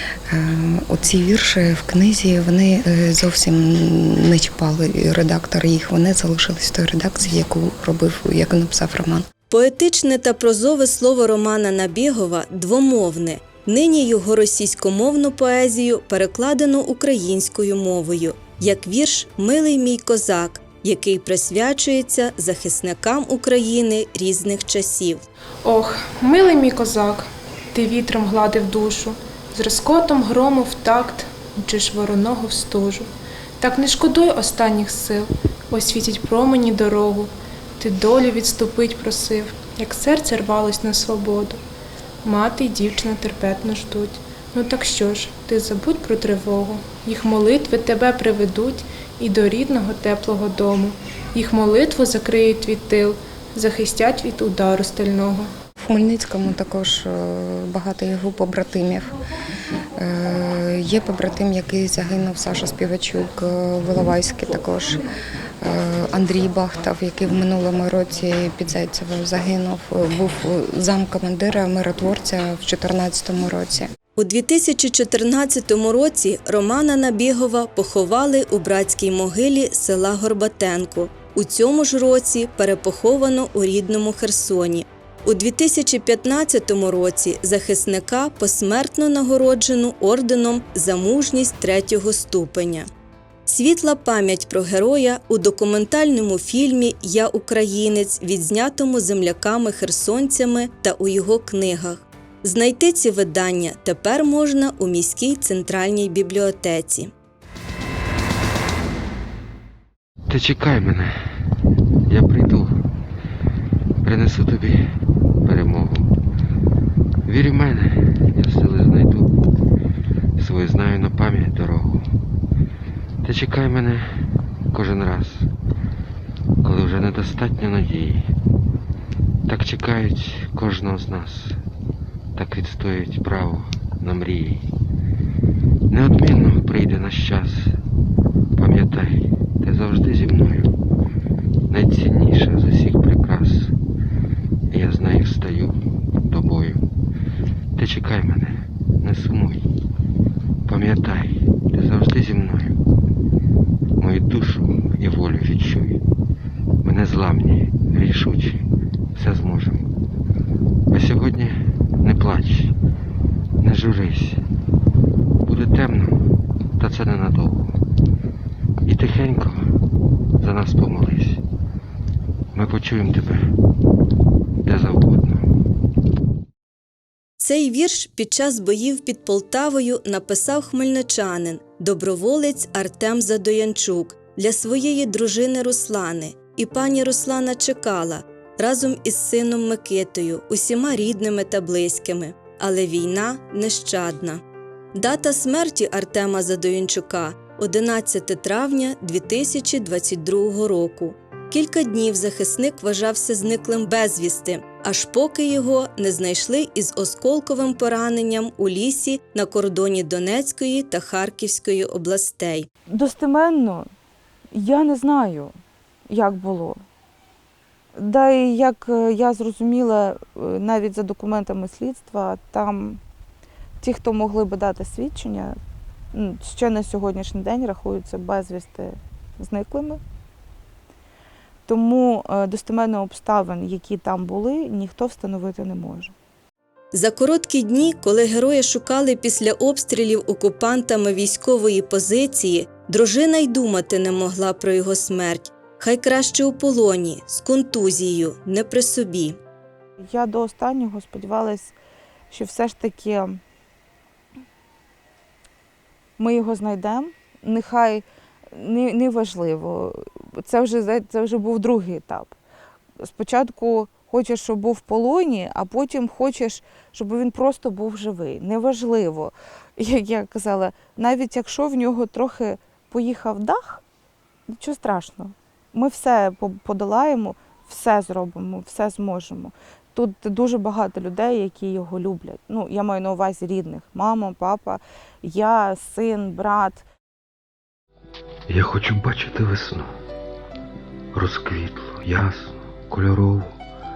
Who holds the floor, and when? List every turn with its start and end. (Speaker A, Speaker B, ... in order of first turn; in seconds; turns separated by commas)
Speaker A: 0.3-9.3, Speaker B: 9.5-25.2, Speaker C: 25.6-41.6, Speaker C: 42.2-55.5, Speaker A: 55.8-59.2, Speaker A: 60.0-65.0, Speaker A: 65.6-73.9, Speaker B: 74.2-92.9, Speaker B: 93.5-107.1, Speaker D: 110.3-111.2, Speaker D: 112.1-112.8, Speaker D: 114.0-114.8, Speaker D: 115.4-116.1, Speaker D: 117.3-119.4, Speaker D: 120.4-122.2, Speaker D: 123.2-125.5, Speaker D: 126.6-128.3, Speaker D: 129.5-131.6, Speaker D: 132.4-134.7, Speaker D: 135.9-137.8, Speaker D: 138.6-140.8, Speaker D: 141.7-143.8, Speaker D: 144.7-146.8, Speaker D: 147.8-149.7, Speaker D: 150.7-152.8, Speaker D: 154.0-156.0, Speaker D: 156.8-159.9, Speaker D: 160.9-162.7, Speaker D: 163.6-164.4, Speaker D: 165.4-167.8, Speaker D: 168.9-169.7, Speaker D: 170.4-171.4, Speaker D: 172.5-173.5, Speaker D: 174.6-175.4, Speaker B: 177.4-194.4, Speaker B: 194.9-212.7, Speaker E: 212.9-213.9, Speaker E: 214.5-215.5, Speaker E: 216.1-216.8, Speaker E: 218.0-223.0, Speaker E: 223.8-225.6, Speaker E: 226.1-230.0, Speaker E: 231.7-236.1, Speaker B: 236.9-249.4, Speaker E: 250.0-251.8, Speaker E: 252.3-253.4, Speaker E: 256.2-262.4, Speaker E: 263.0-273.8, Speaker E: 274.5-286.9, Speaker D: 288.5-289.9, Speaker D: 291.1-293.6